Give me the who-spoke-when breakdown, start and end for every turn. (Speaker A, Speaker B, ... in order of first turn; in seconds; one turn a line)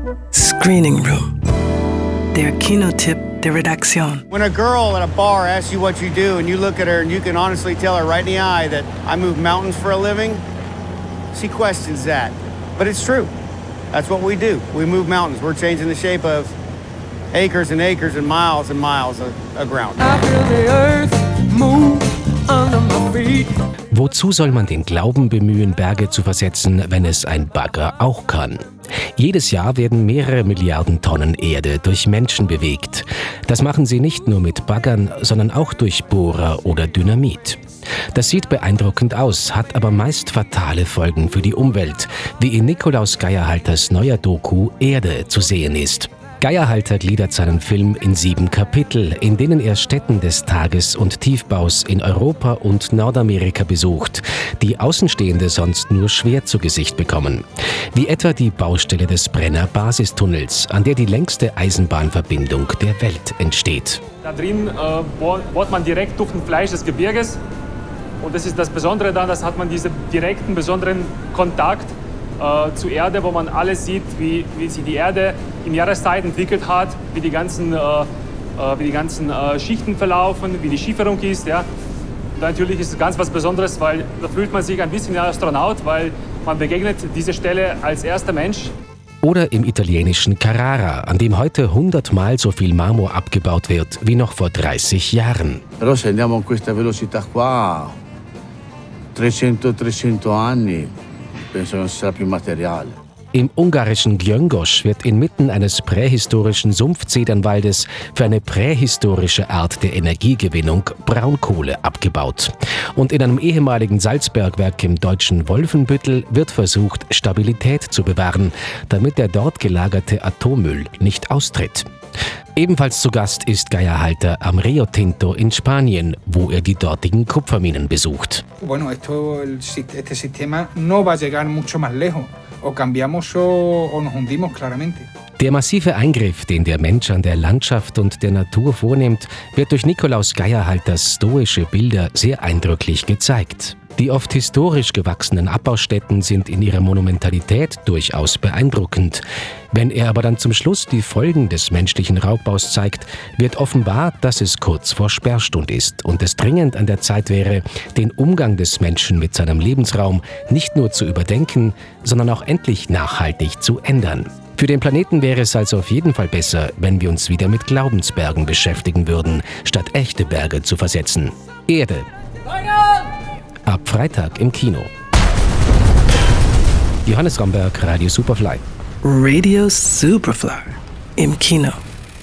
Speaker A: 0.3-1.3
Speaker A: 2.3-4.2
Speaker B: 4.3-10.4
Speaker B: 11.3-13.3
Speaker B: 13.9-16.5
Speaker B: 17.3-20.1
Speaker C: 20.0-23.5
Speaker D: 23.9-28.6
Speaker D: 29.2-37.6
Speaker D: 38.1-64.0
Speaker E: 64.2-67.4
Speaker E: 68.2-81.7
Speaker E: 82.4-88.7
Speaker D: 89.2-95.6
Speaker F: 95.8-98.0
Speaker F: 99.2-100.9
Speaker F: 101.5-103.0
Speaker D: 103.3-121.9
Speaker D: 122.6-128.4
Speaker G: 128.6-135.1
Speaker D: 135.4-172.1
Speaker D: 173.7-174.9
Speaker D: 177.1-178.6
Speaker A: 179.0-181.8